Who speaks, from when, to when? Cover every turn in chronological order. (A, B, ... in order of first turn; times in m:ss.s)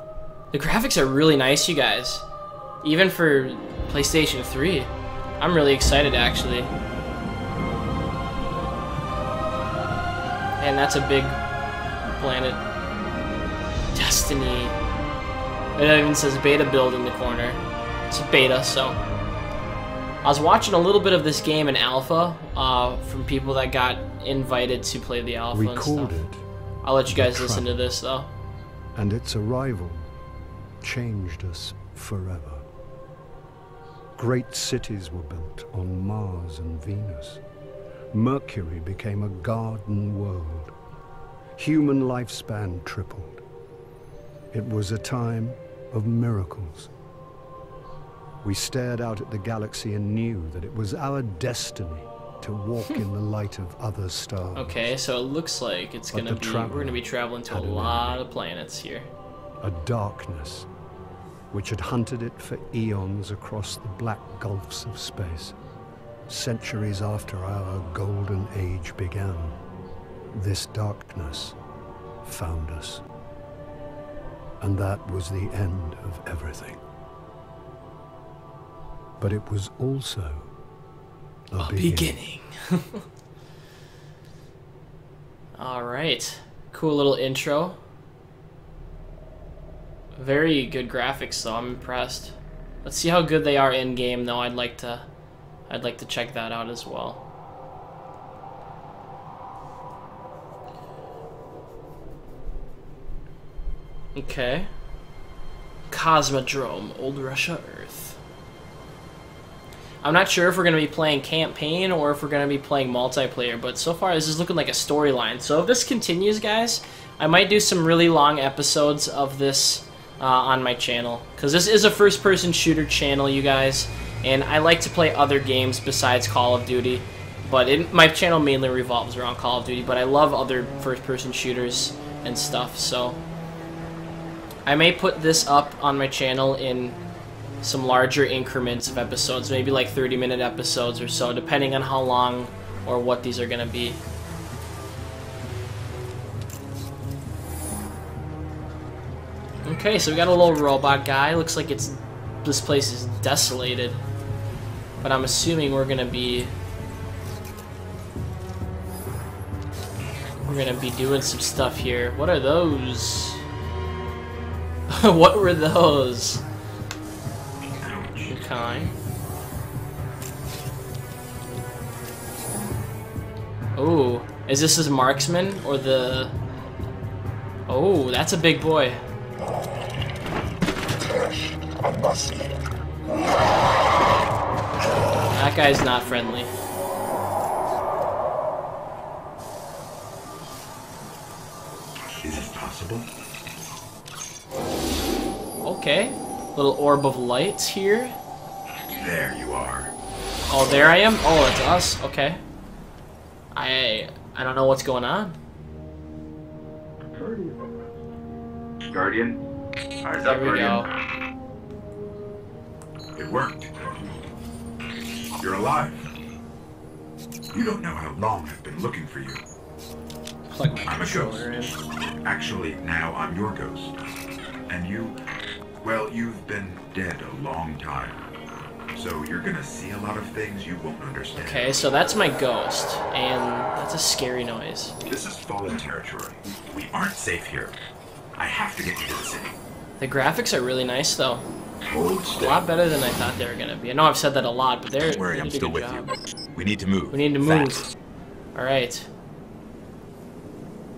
0:00.5-0:02.2 A
0:02.8-0:06.7 A
0:10.6-0:11.4 A
0:12.2-0:12.6 A
0:13.9-0:14.8 A
0:15.8-0:19.0 A
0:20.2-0:26.2 A
0:25.5-0:26.4 B
0:26.8-0:28.3 A
0:27.1-0:27.8 B
0:28.9-0:30.1 B
0:30.8-0:32.6 B
0:34.2-0:37.4 B
0:38.1-0:40.7 B
0:41.6-0:43.4 B
0:44.5-0:46.9 B
0:48.4-0:54.8 B
0:54.5-0:59.1 A
0:56.1-0:58.2 B
0:59.6-1:00.7 B
1:01.5-1:05.5 B
1:06.3-1:09.6 B
1:10.3-1:11.6 B
1:12.2-1:13.0 B
1:14.6-1:16.8 B
1:19.2-1:20.5 B
1:21.5-1:22.1 B
1:21.6-1:23.0 A
1:25.6-1:27.8 A
1:30.2-1:35.0 A
1:35.7-1:37.2 A
1:44.1-1:44.7 A
1:45.9-1:48.2 A
1:50.0-2:13.2 A
2:14.6-2:17.0 A
2:17.6-2:24.0 A
2:29.6-2:34.0 A
2:35.0-2:36.5 A
2:40.4-2:43.4 A
2:44.9-2:46.4 A
2:47.8-2:48.4 C
2:48.3-2:48.9 A
2:53.7-2:56.3 A
2:57.7-2:59.0 A
3:05.3-3:06.5 A
3:12.2-3:13.1 C
3:15.6-3:18.1 A
3:18.9-3:19.9 C
3:20.5-3:22.4 A
3:23.5-3:25.4 A
3:27.1-3:27.6 C
3:28.9-3:29.4 C
3:30.0-3:30.9 C
3:30.2-3:30.9 A
3:33.1-3:34.2 C
3:35.4-3:36.1 C
3:37.5-3:39.4 C
3:40.5-3:41.8 A
3:40.8-3:41.7 C
3:42.2-3:43.9 C
3:44.7-3:45.2 C
3:45.8-3:48.2 C
3:48.9-3:51.8 C
3:51.4-3:55.0 A
3:55.0-3:57.7 C
3:58.4-3:59.6 C
4:00.0-4:01.4 A
4:01.8-4:02.6 C
4:02.4-4:06.1 A
4:05.0-4:07.9 C
4:07.1-4:07.8 A
4:08.5-4:09.1 A